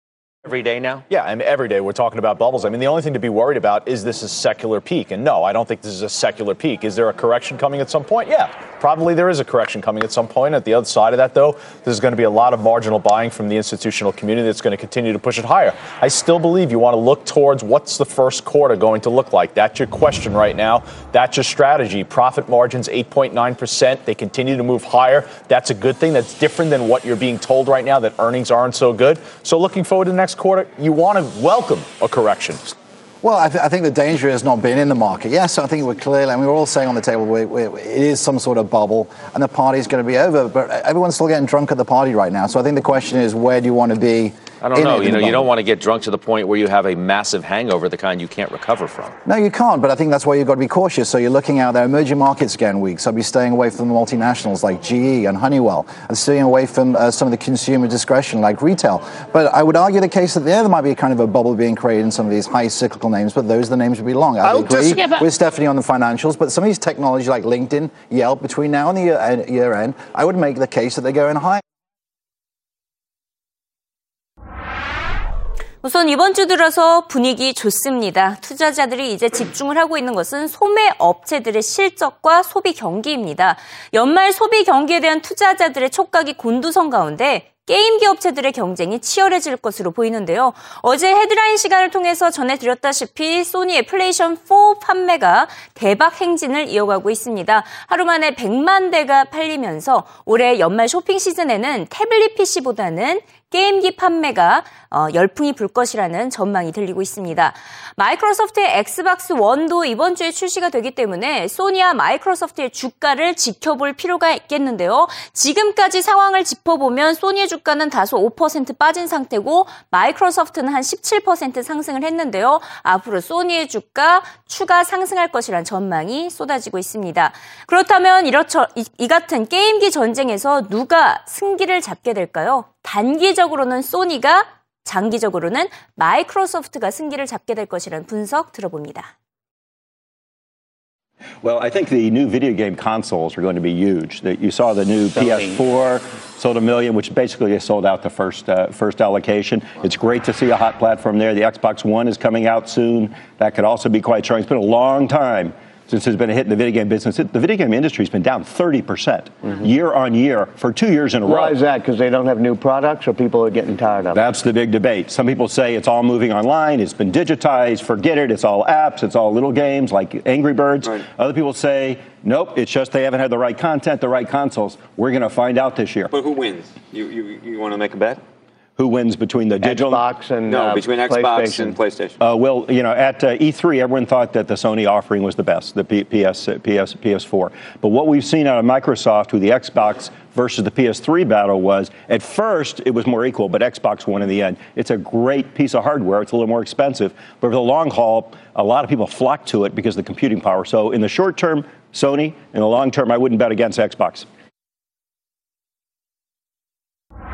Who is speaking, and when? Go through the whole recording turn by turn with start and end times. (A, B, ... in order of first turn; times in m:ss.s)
0:00.5-0:01.0 A
0:01.1-0:32.7 B
0:33.2-0:45.5 C
0:44.6-0:49.1 A
0:49.2-1:11.6 C
1:15.8-2:19.1 D
2:21.4-2:41.6 E
2:41.2-2:44.2 F
2:44.1-2:56.1 E
2:56.1-2:58.1 G
2:58.8-3:00.0 E
2:59.6-3:01.8 F
3:00.5-3:02.1 G
3:02.2-3:24.3 E